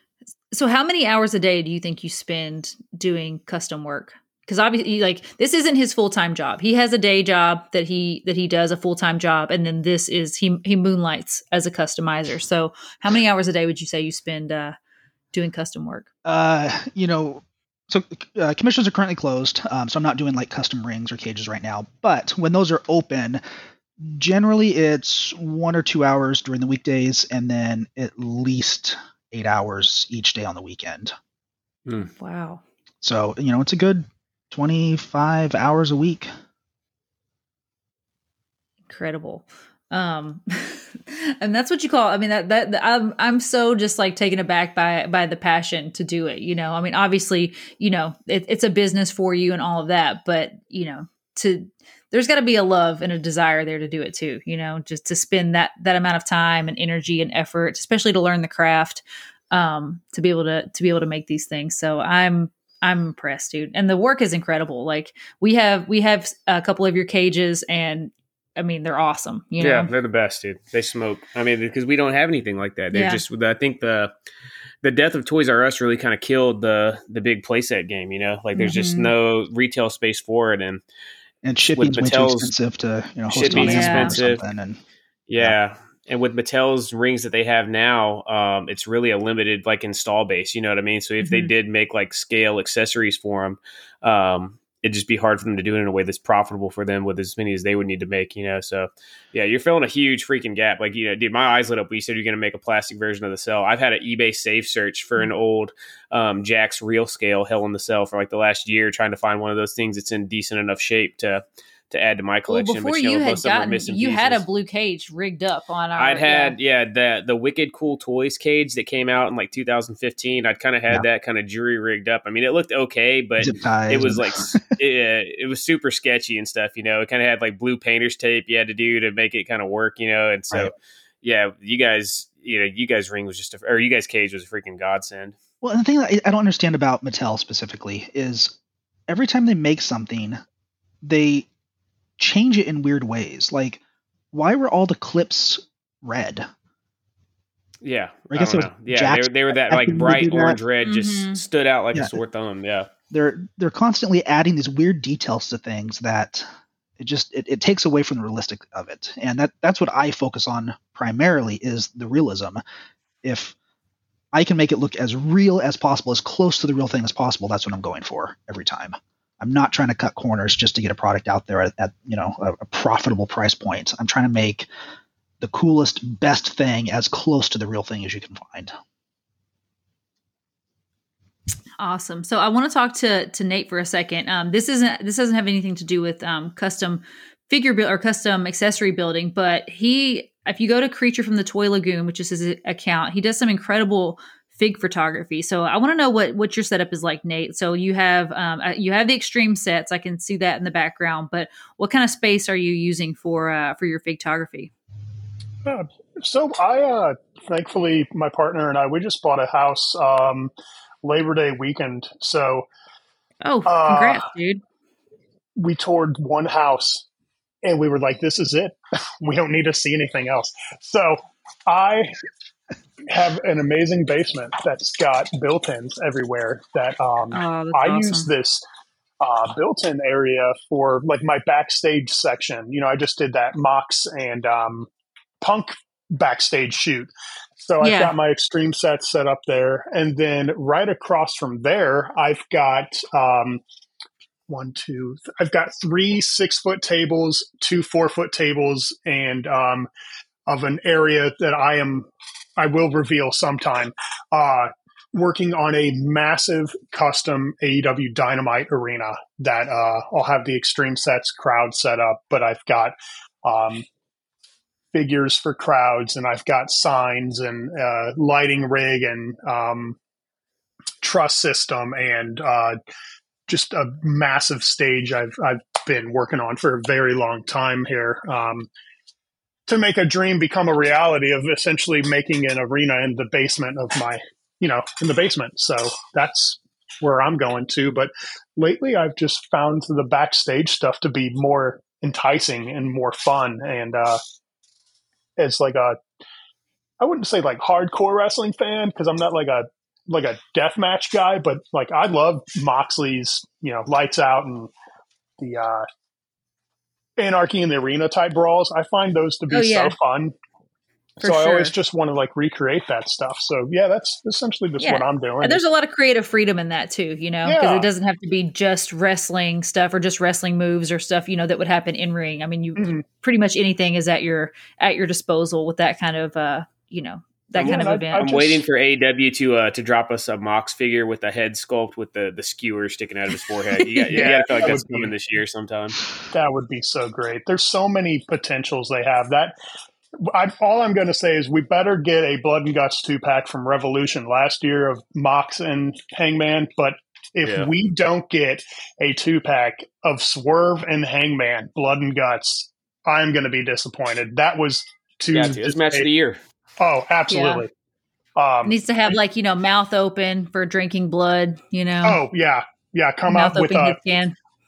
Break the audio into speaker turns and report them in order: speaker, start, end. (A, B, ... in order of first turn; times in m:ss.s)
0:00.5-0:14.8 A
0:15.3-0:16.1 A
0:16.2-0:23.4 B
0:24.0-0:31.1 B
0:32.2-0:32.6 A
0:33.0-0:36.3 B
0:38.9-1:09.9 A
1:09.6-1:14.1 C
1:12.9-1:13.2 A
1:14.8-1:20.8 C
1:18.6-1:19.1 A
1:21.4-1:24.8 B
1:21.8-1:22.5 C
1:23.3-1:24.4 C
1:23.5-1:24.2 A
1:25.3-1:54.4 C
1:31.2-1:31.5 A
1:52.5-1:56.6 A
1:56.0-2:15.4 C
2:03.4-2:04.6 B
2:15.6-2:18.6 B
2:19.1-2:20.4 B
2:21.0-2:21.5 B
2:22.2-2:23.8 B
2:24.3-2:26.5 B
2:27.8-2:32.9 C
2:28.3-2:30.6 B
2:30.8-2:31.4 A
2:33.1-2:36.4 B
2:37.0-2:42.6 B
2:43.2-2:43.6 B
2:44.3-2:54.7 B
2:55.4-2:58.7 B
3:01.8-3:24.7 A
3:25.6-3:30.5 D
3:31.0-3:32.7 D
3:33.4-3:34.6 A
3:33.7-3:34.2 D
3:35.6-3:37.1 D
3:37.6-3:42.1 D
3:43.1-3:48.6 D
3:47.3-3:48.3 A
3:49.2-3:54.9 D
3:55.4-4:03.6 D
3:57.8-3:58.1 A
4:04.5-4:09.9 D
4:10.5-4:23.8 D
4:24.9-4:30.0 D
4:31.0-4:32.8 D
4:33.5-4:38.7 D
4:39.7-4:54.2 D
4:55.4-4:56.0 D
4:57.0-5:04.7 D
5:05.4-5:05.9 D
5:07.2-5:10.4 D
5:09.5-5:10.0 A
5:11.2-5:15.6 D
5:11.2-5:11.7 A
5:14.8-5:28.3 A
5:17.4-5:17.9 D
5:22.8-5:23.0 D
5:27.6-5:28.6 D
5:27.6-5:36.0 C
5:33.8-5:34.3 A
5:34.1-5:35.1 D
5:36.3-5:39.5 D
5:40.3-5:56.1 D
5:47.4-5:47.7 C
5:55.3-5:56.4 C
5:56.8-5:57.7 D
5:57.3-5:57.6 A
5:58.4-5:59.1 D
5:58.6-6:02.2 A
6:02.0-6:04.0 D
6:03.3-6:04.4 A